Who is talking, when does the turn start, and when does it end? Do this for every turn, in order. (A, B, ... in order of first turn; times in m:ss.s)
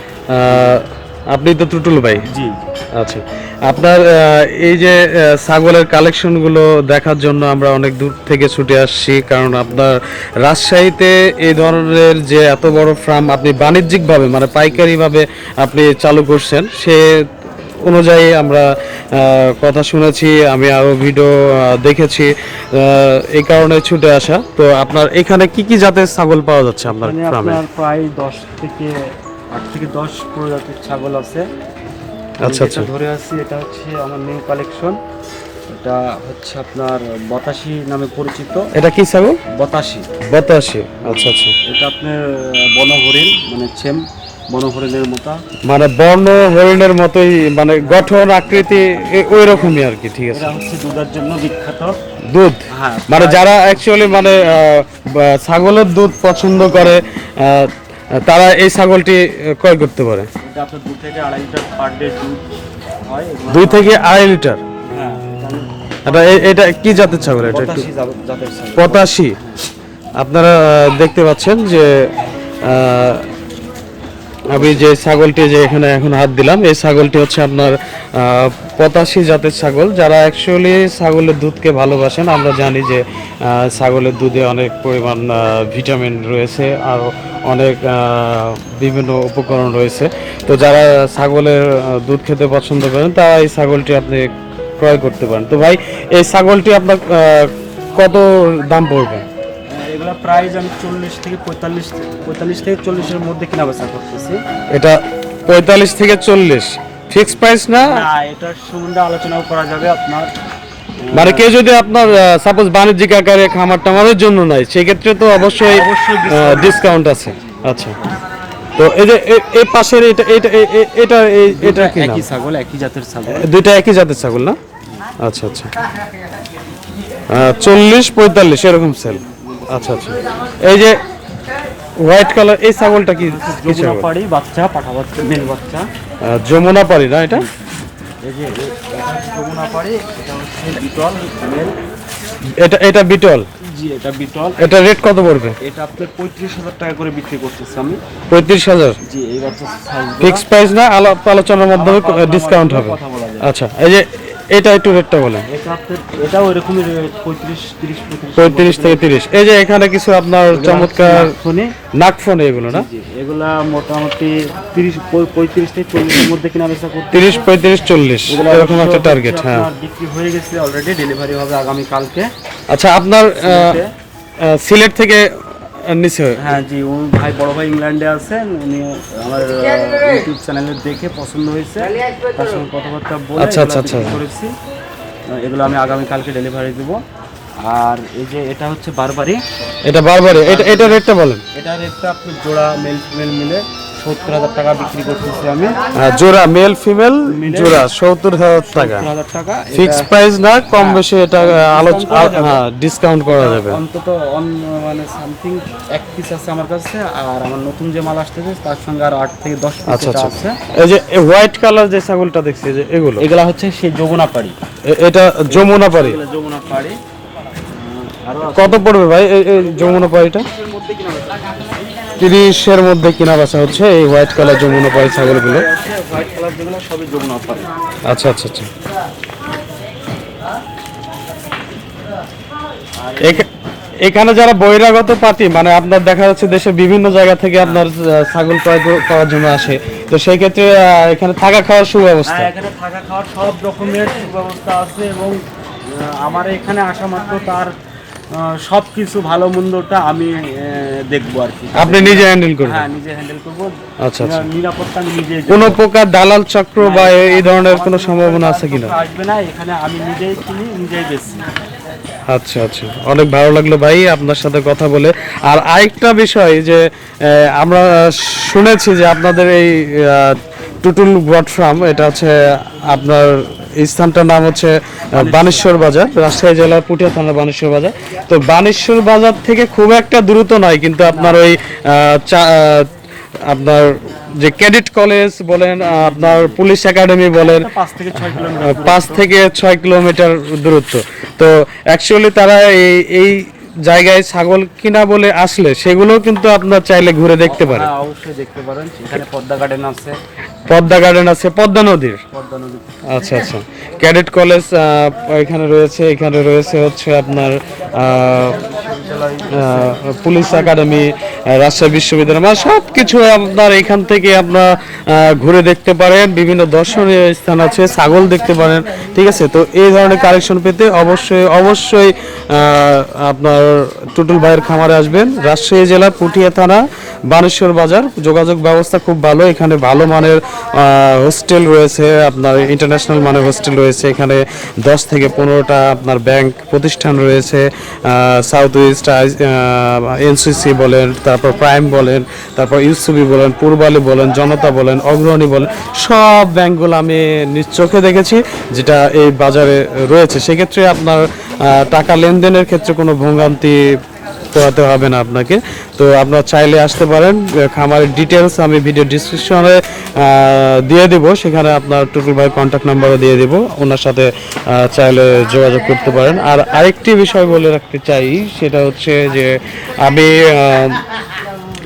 0:00.3-0:02.2 A
0:00.5-0:00.8 B
0:02.2-0:02.6 B
0:02.9-0:27.6 A
0:26.9-0:28.9 B
0:29.5-0:31.4 B
0:32.4-0:32.9 A
0:32.4-0:35.0 B
0:35.7-0:38.7 B
0:38.7-0:39.4 A
0:39.5-0:40.1 B
0:40.3-0:41.6 A
0:41.0-0:45.4 B
0:45.6-0:50.5 A
0:50.3-0:52.0 B
0:52.3-1:00.3 A
0:52.7-0:53.4 B
1:00.4-1:02.4 B
1:03.0-1:04.0 B
1:03.5-1:04.6 A
1:04.9-1:06.6 B
1:06.0-1:07.8 A
1:07.2-1:09.6 B
1:08.8-1:09.4 A
1:10.2-1:13.3 A
1:14.5-1:39.2 A
1:14.5-1:14.9 B
1:39.7-1:44.4 B
1:44.7-1:48.0 A
1:47.8-1:50.3 B
1:51.0-1:51.5 B
1:51.1-1:58.0 A
1:55.7-1:58.1 B
1:58.8-2:02.2 A
2:01.5-2:03.5 B
2:03.3-2:04.6 A
2:05.2-2:05.7 A
2:07.3-2:11.0 A
2:09.0-2:10.2 B
2:12.0-2:14.1 A
2:13.2-2:15.8 B
2:16.2-2:17.5 A
2:17.3-2:17.6 B
2:18.2-2:21.7 B
2:22.6-2:23.5 A
2:23.6-2:24.7 B
2:24.6-2:25.6 A
2:25.6-2:28.0 B
2:28.3-2:29.0 A
2:29.0-2:30.4 B
2:30.2-2:35.5 A
2:31.7-2:33.5 B
2:35.4-2:39.0 B
2:38.4-2:41.3 A
2:40.5-2:41.7 B
2:41.9-2:42.9 A
2:42.7-2:47.5 B
2:47.1-2:49.7 A
2:48.3-2:52.3 B
2:52.7-2:53.8 A
2:53.4-2:53.9 B
2:54.4-2:56.5 A
2:56.4-3:04.5 B
3:03.4-3:04.2 A
3:05.3-3:07.0 B
3:07.6-3:09.4 B
3:09.8-3:11.4 A
3:10.4-3:11.0 B
3:11.5-3:15.7 B
3:15.9-3:19.1 A
3:17.3-3:17.8 B
3:18.7-3:20.1 B
3:19.7-3:23.8 A
3:20.7-3:22.6 B
3:23.3-3:30.6 B
3:29.9-3:33.2 A
3:33.2-3:34.6 B
3:34.8-3:36.2 A
3:35.5-3:37.0 B
3:37.7-3:38.8 B
3:38.5-3:40.5 A
3:39.9-3:41.4 B
3:42.2-3:45.7 A
3:44.8-3:47.7 B
3:48.0-3:48.7 A
3:53.0-3:53.4 B
3:53.2-3:53.5 A
3:54.0-4:02.5 A
4:02.2-4:07.7 B
4:08.3-4:15.8 B
4:11.8-4:12.9 A
4:14.0-4:14.4 A
4:15.5-4:18.9 A
4:16.8-4:21.5 B
4:22.3-4:42.9 A
4:35.1-4:35.7 B
4:41.0-4:41.4 B
4:43.4-4:57.9 A
4:45.8-4:46.6 B
4:47.4-4:49.2 B
4:57.4-5:00.2 B
5:00.7-5:02.2 A
5:02.3-5:02.9 B
5:03.1-5:08.6 A
5:08.4-5:10.0 B
5:09.5-5:53.9 A
5:54.5-6:11.0 A